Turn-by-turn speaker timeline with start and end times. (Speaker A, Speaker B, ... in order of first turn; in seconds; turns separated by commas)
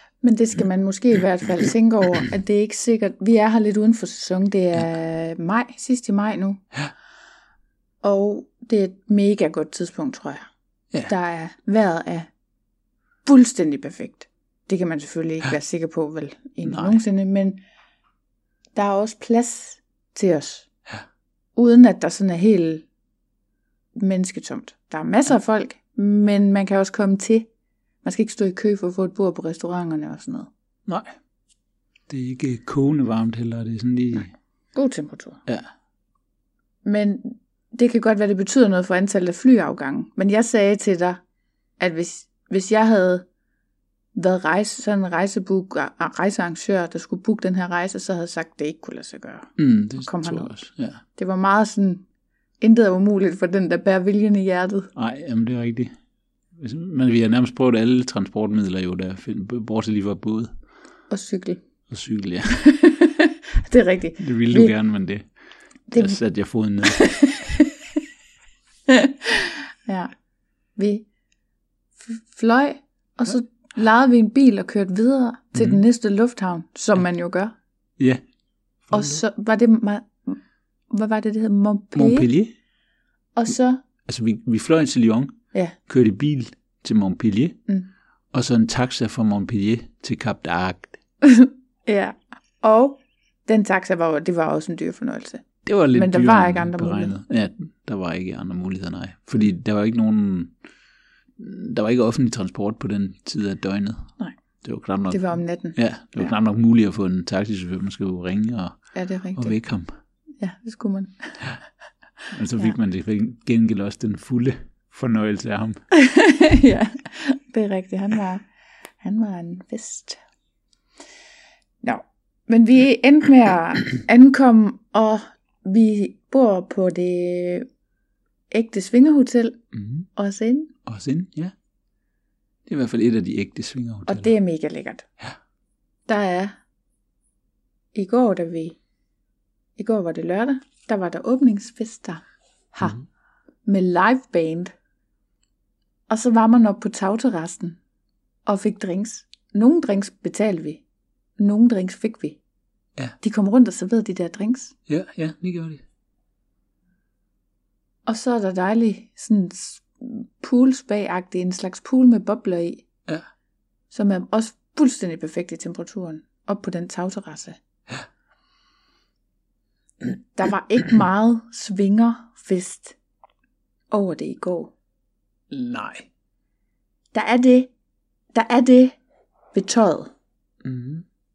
Speaker A: 0.2-6.6, Speaker A: 8.0-10.5, Speaker A: 11.1-12.3, Speaker A: 13.2-17.6, Speaker B: 16.6-17.0, Speaker A: 18.7-20.7, Speaker A: 21.6-22.9, Speaker A: 23.9-27.5, Speaker A: 28.0-30.5, Speaker B: 30.9-31.1, Speaker B: 32.1-34.3, Speaker A: 34.7-35.4, Speaker A: 36.8-41.2, Speaker A: 41.8-43.2, Speaker A: 44.1-50.5, Speaker B: 49.6-51.0, Speaker A: 51.1-52.0, Speaker A: 52.6-54.9, Speaker B: 55.0-55.9, Speaker B: 56.5-60.5, Speaker A: 61.1-61.6, Speaker B: 61.9-62.6, Speaker A: 62.6-64.7, Speaker B: 64.2-65.2, Speaker A: 65.9-66.2, Speaker B: 65.9-67.1, Speaker A: 66.8-67.7, Speaker A: 68.9-70.1, Speaker A: 70.8-71.0, Speaker A: 72.0-77.5, Speaker B: 75.5-75.8, Speaker B: 78.9-79.2, Speaker A: 78.9-82.3, Speaker B: 81.9-82.5, Speaker A: 83.3-83.8, Speaker B: 84.0-87.6, Speaker B: 88.3-91.0, Speaker A: 91.2-97.2, Speaker B: 95.6-100.5, Speaker B: 101.4-108.8, Speaker A: 105.1-106.3, Speaker A: 108.9-109.6, Speaker B: 109.3-109.9, Speaker A: 110.4-111.5, Speaker B: 112.3-115.8, Speaker A: 115.9-118.4, Speaker A: 119.0-120.2, Speaker A: 121.8-127.7, Speaker A: 128.5-129.6, Speaker B: 129.7-130.1, Speaker A: 130.1-130.7, Speaker B: 130.8-131.5, Speaker B: 132.7-134.3, Speaker A: 134.1-135.1, Speaker A: 136.1-136.6, Speaker A: 137.9-138.8, Speaker A: 139.8-143.0, Speaker A: 143.6-144.7, Speaker A: 146.1-147.8, Speaker A: 148.4-150.8, Speaker A: 151.4-152.4, Speaker A: 153.2-154.8, Speaker B: 154.9-155.8, Speaker A: 158.1-162.8, Speaker A: 163.9-167.6, Speaker A: 170.2-172.9, Speaker A: 173.9-174.7, Speaker B: 175.5-176.1, Speaker A: 177.1-177.7, Speaker A: 178.3-179.0, Speaker A: 179.5-180.1, Speaker B: 180.6-181.0